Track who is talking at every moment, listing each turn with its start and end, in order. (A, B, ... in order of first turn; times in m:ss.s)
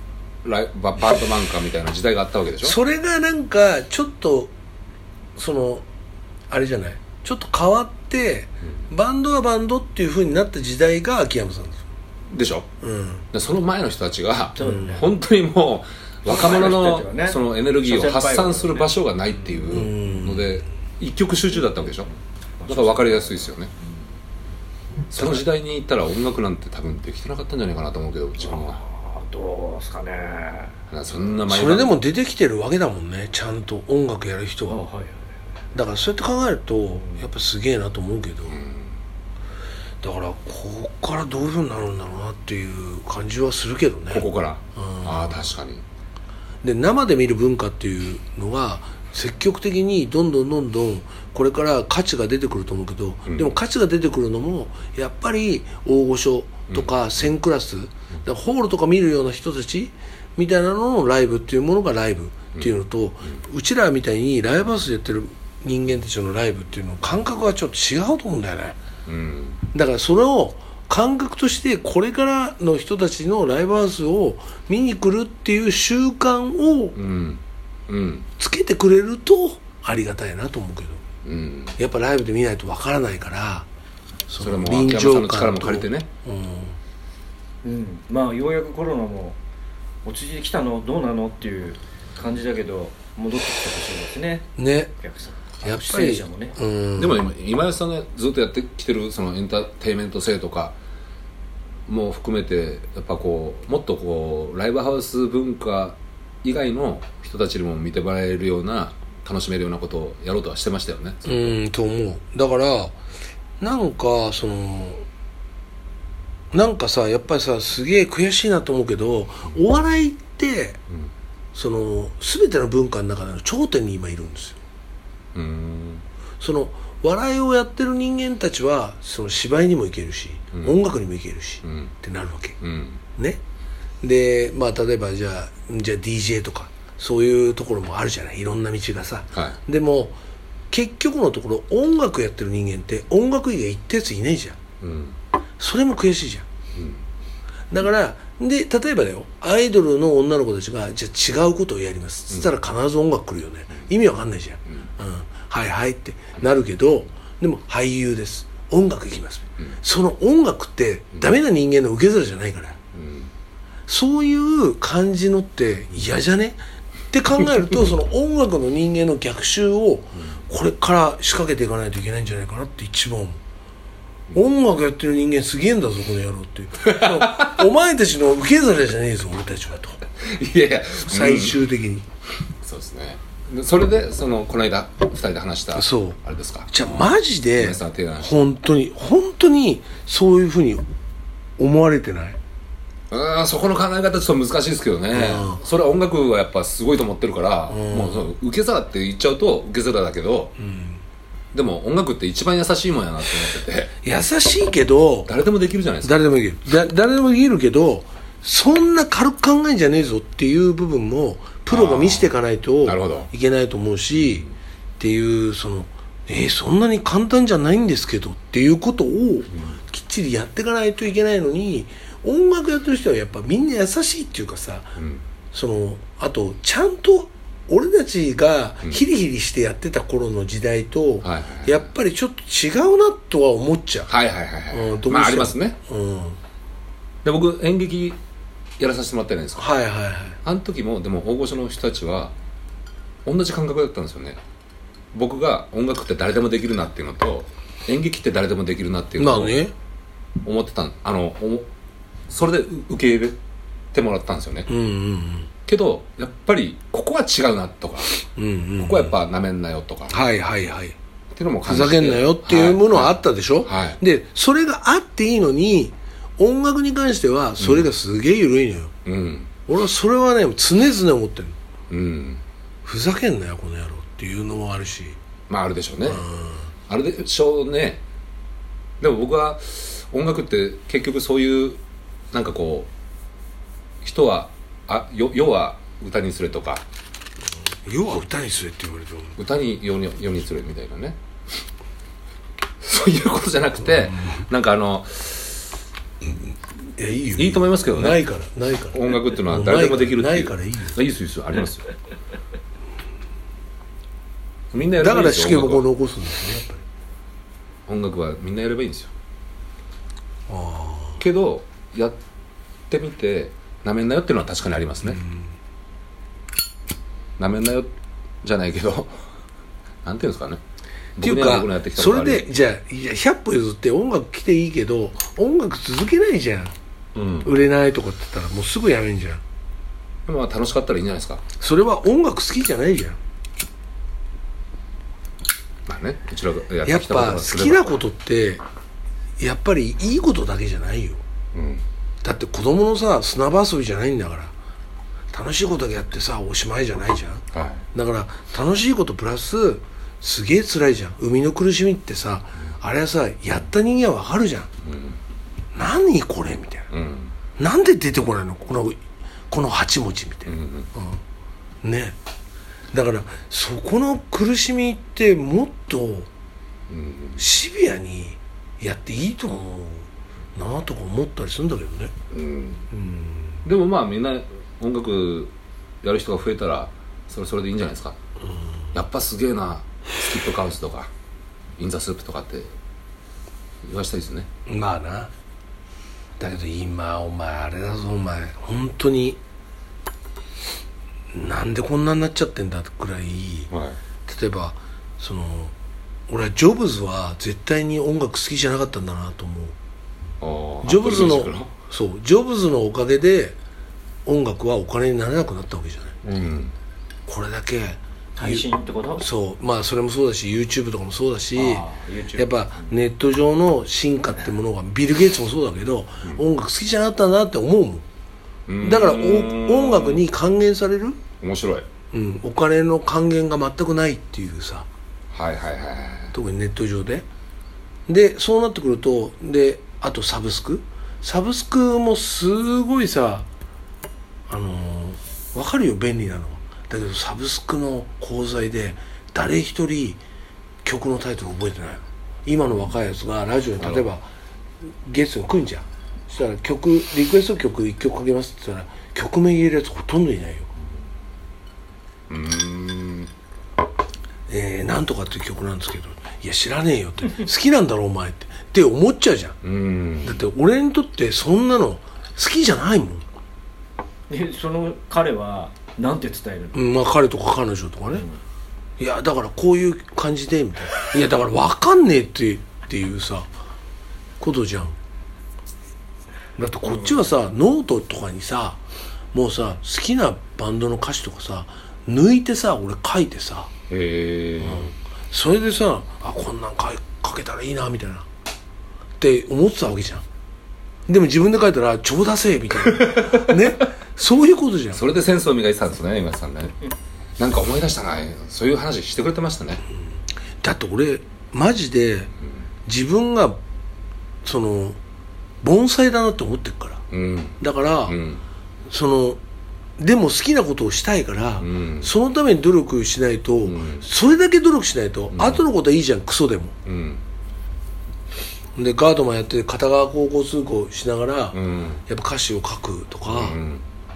0:00.4-0:02.8 A
0:02.6-0:04.5 B
0:05.4-0:05.8 B
0:06.5-0:11.8 B
0:12.3-0:12.7 A
0:12.8-0:13.2 B
0:13.3-0:22.1 A
0:14.6-0:15.1 C
0:14.6-0:15.0 B
0:16.2-0:19.7 C
0:19.7-0:20.6 B
0:22.6-0:23.5 C
0:22.7-0:23.7 A
0:25.1-0:28.8 A
0:25.2-0:25.4 B
0:28.4-0:30.7 C
0:30.9-0:32.0 A
0:31.5-0:34.8 B
0:34.7-0:35.3 C
0:35.7-0:38.6 B
0:37.0-0:37.2 C
0:38.5-0:39.0 A
0:40.0-0:45.5 B
0:44.1-0:45.8 A
0:46.6-1:08.8 B
0:53.3-0:53.5 A
1:09.0-1:09.6 A
1:09.7-1:17.0 B
1:17.0-1:18.3 A
1:18.4-1:21.0 B
1:21.2-1:21.8 A
1:21.8-1:23.6 B
1:24.3-1:26.8 B
1:24.4-1:26.1 A
1:27.6-1:29.4 C
1:30.0-1:36.5 C
1:34.6-1:34.9 B
1:35.6-1:37.2 B
1:37.0-1:40.8 A
1:41.9-1:51.5 A
1:51.2-1:52.9 B
1:53.6-1:55.0 B
1:56.5-2:00.8 B
2:01.5-2:04.6 B
2:05.3-2:06.0 A
2:06.4-2:12.6 B
2:11.6-2:11.9 A
2:12.6-2:13.0 A
2:13.2-2:13.4 B
2:14.0-2:20.1 B
2:20.7-2:24.6 B
2:24.8-2:25.2 A
2:25.6-2:26.4 B
2:26.7-2:27.0 A
2:27.7-2:42.8 B
2:42.9-2:43.3 A
2:43.9-2:46.6 B
2:47.1-2:53.4 B
2:54.3-3:00.0 B
2:56.8-2:57.6 A
3:00.2-3:01.6 A
3:01.1-3:02.0 B
3:02.6-3:08.4 A
3:05.7-3:06.2 B
3:06.7-3:10.8 B
3:11.6-3:12.4 B
3:13.1-3:20.5 A
3:15.1-3:15.6 B
3:17.7-3:18.2 B
3:20.6-3:21.0 B
3:21.5-3:24.0 A
3:24.0-3:25.3 B
3:25.2-3:26.2 A
3:26.0-3:34.4 B
3:31.7-3:33.3 A
3:34.1-3:34.5 A
3:35.0-3:44.9 B
3:45.0-3:45.2 A
3:45.5-3:54.1 B
3:51.2-3:51.9 A
3:54.1-3:55.8 A
3:54.7-3:56.4 B
3:57.2-3:58.2 A
3:58.8-3:59.7 A
3:59.6-4:00.4 B
4:00.4-4:02.3 A
4:03.2-4:04.4 A
4:05.1-4:09.6 A
4:09.2-4:09.7 B
4:10.4-4:11.7 A
4:12.3-4:13.4 A
4:13.9-4:14.7 A
4:14.7-4:15.5 B
4:15.7-4:18.1 A
4:18.3-4:19.2 B
4:18.8-4:20.2 A
4:20.1-4:20.9 B
4:21.3-4:24.0 A
4:21.6-4:28.9 B
4:27.6-4:27.9 A
4:29.0-4:29.5 A
4:29.7-4:31.6 B
4:31.9-4:32.4 A
4:32.8-4:35.2 B
4:35.5-4:36.2 A
4:36.1-4:36.7 B
4:36.9-4:38.0 A
4:39.0-4:41.8 A
4:42.3-4:42.9 A
4:44.0-4:46.8 A
4:47.8-4:49.4 B
4:49.4-4:51.2 A
4:52.8-4:55.7 A
4:54.0-4:54.4 B
4:57.0-5:00.9 B
4:57.4-4:58.2 A
4:58.9-5:01.9 A
5:04.7-5:05.8 A
5:05.0-5:06.8 B
5:07.9-5:09.1 A
5:10.5-5:11.2 B
5:11.2-5:12.2 A
5:12.9-5:15.2 A
5:15.0-5:15.5 B
5:17.4-5:17.9 A
5:18.4-5:19.2 A
5:20.0-5:20.6 A
5:21.2-5:22.5 A
5:21.2-5:26.7 B
5:27.1-5:27.5 A
5:27.4-5:29.4 B
5:30.2-5:31.4 A
5:31.6-5:33.2 B
5:35.9-5:37.9 A
5:36.8-5:38.6 B
5:39.4-5:41.2 B
5:41.5-5:41.8 A
5:42.2-5:44.5 B
5:45.3-5:54.7 B
5:47.5-5:47.8 A
5:54.8-5:55.2 A
5:55.7-5:56.9 B
5:56.9-5:57.3 A
5:57.6-6:01.2 B
6:00.5-6:00.9 A
6:01.8-6:02.2 B
6:02.9-6:06.3 B
6:06.9-6:07.4 A
6:07.4-6:12.1 B
6:12.3-6:12.8 A
6:12.9-6:13.5 B
6:13.6-6:18.2 A
6:18.4-6:18.8 B
6:18.9-6:21.1 A
6:21.8-6:22.7 A
6:23.8-6:24.5 A
6:24.7-6:25.3 B
6:26.4-6:29.4 B
6:31.3-6:33.7 B
6:33.7-6:34.0 A
6:34.3-6:35.7 B
6:36.3-6:39.7 B
6:40.4-6:41.7 A
6:40.8-6:43.6 B
6:44.2-6:46.2 B
6:46.2-6:46.7 A
6:47.3-6:48.6 B
6:48.4-6:49.2 C
6:49.2-6:58.0 B
6:51.5-6:52.9 C
6:58.7-7:00.2 A
6:58.8-7:01.2 B
7:01.4-7:01.9 A
7:02.1-7:04.9 B
7:05.3-7:06.3 A
7:06.3-7:07.2 B
7:08.1-7:13.5 B
7:14.5-7:20.2 B
7:20.8-7:24.3 B
7:23.8-7:24.0 A
7:24.9-7:30.7 B
7:32.3-7:33.3 A
7:34.5-7:39.6 B
7:39.6-7:40.4 A
7:40.2-7:43.2 B
7:44.3-7:46.8 C
7:46.7-7:48.2 B
7:49.0-7:53.5 B
7:54.4-7:54.9 B
7:56.6-7:58.8 B
7:59.3-8:03.7 B
8:03.9-8:04.9 A
8:04.6-8:08.3 B
8:09.2-8:10.2 B
8:11.1-8:15.0 B
8:12.8-8:13.7 A
8:14.9-8:16.8 A
8:17.4-8:19.8 A
8:20.6-8:22.3 B
8:22.8-8:23.6 B
8:24.4-8:25.0 B
8:25.6-8:27.0 B
8:27.1-8:28.4 A
8:27.6-8:28.2 B
8:28.9-8:29.4 B
8:30.0-8:36.7 B
8:31.6-8:32.1 A
8:33.6-8:34.0 A
8:35.3-8:35.6 A
8:36.8-8:37.2 A
8:38.8-8:43.6 B
8:41.5-8:42.0 A
8:43.2-8:43.8 A